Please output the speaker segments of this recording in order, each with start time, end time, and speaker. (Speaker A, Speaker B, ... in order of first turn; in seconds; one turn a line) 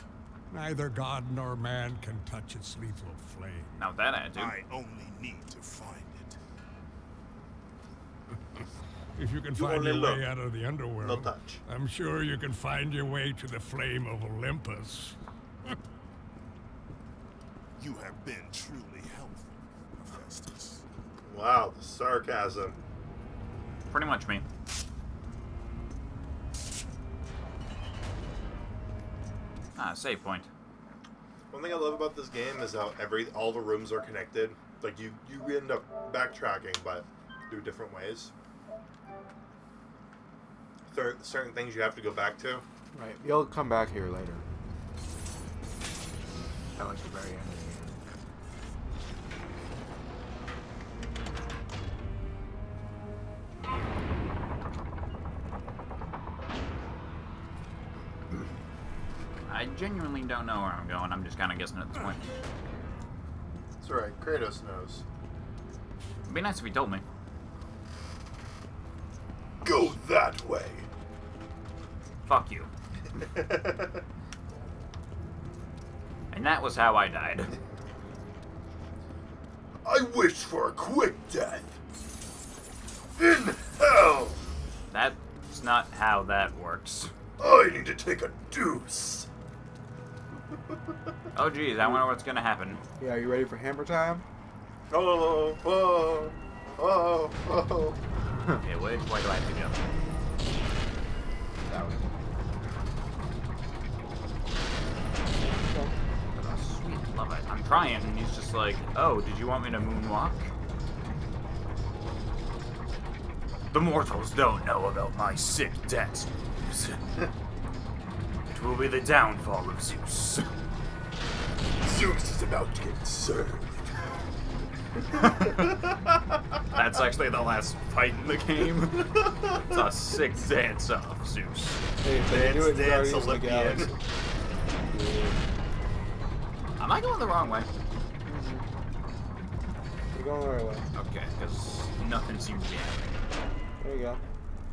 Speaker A: 0.5-3.8
Speaker B: 3.8-4.6
Speaker C: 4.4-6.4
Speaker A: 9.2-15.2
Speaker D: 9.6-10.2
Speaker D: 11.0-11.6
Speaker C: 17.8-20.8
Speaker D: 21.2-22.8
Speaker B: 23.9-24.4
Speaker B: 29.8-30.5
Speaker D: 31.5-38.3
Speaker D: 40.9-42.6
Speaker E: 42.9-44.5
Speaker E: 46.8-48.0
Speaker B: 59.5-62.2
Speaker D: 63.8-65.0
Speaker B: 66.3-67.0
Speaker D: 69.6-70.9
Speaker B: 72.3-72.7
Speaker D: 73.1-74.0
Speaker B: 76.3-77.6
Speaker D: 79.8-81.8
Speaker D: 83.2-84.4
Speaker B: 84.9-87.1
Speaker D: 87.4-89.3
Speaker B: 91.3-92.8
Speaker E: 93.0-94.2
Speaker D: 94.9-98.0
Speaker B: 98.6-99.8
Speaker E: 101.7-102.2
Speaker E: 105.6-106.0
Speaker B: 106.4-110.5
Speaker B: 113.7-117.0
Speaker B: 118.5-120.6
Speaker D: 121.8-123.9
Speaker B: 125.2-125.7
Speaker D: 125.5-126.1
Speaker B: 126.7-131.8
Speaker E: 132.0-133.9
Speaker D: 132.3-133.9
Speaker E: 134.8-135.4
Speaker B: 136.8-137.7
Speaker E: 138.3-138.7
Speaker E: 140.1-140.9
Speaker B: 140.9-143.2
Speaker E: 143.8-144.2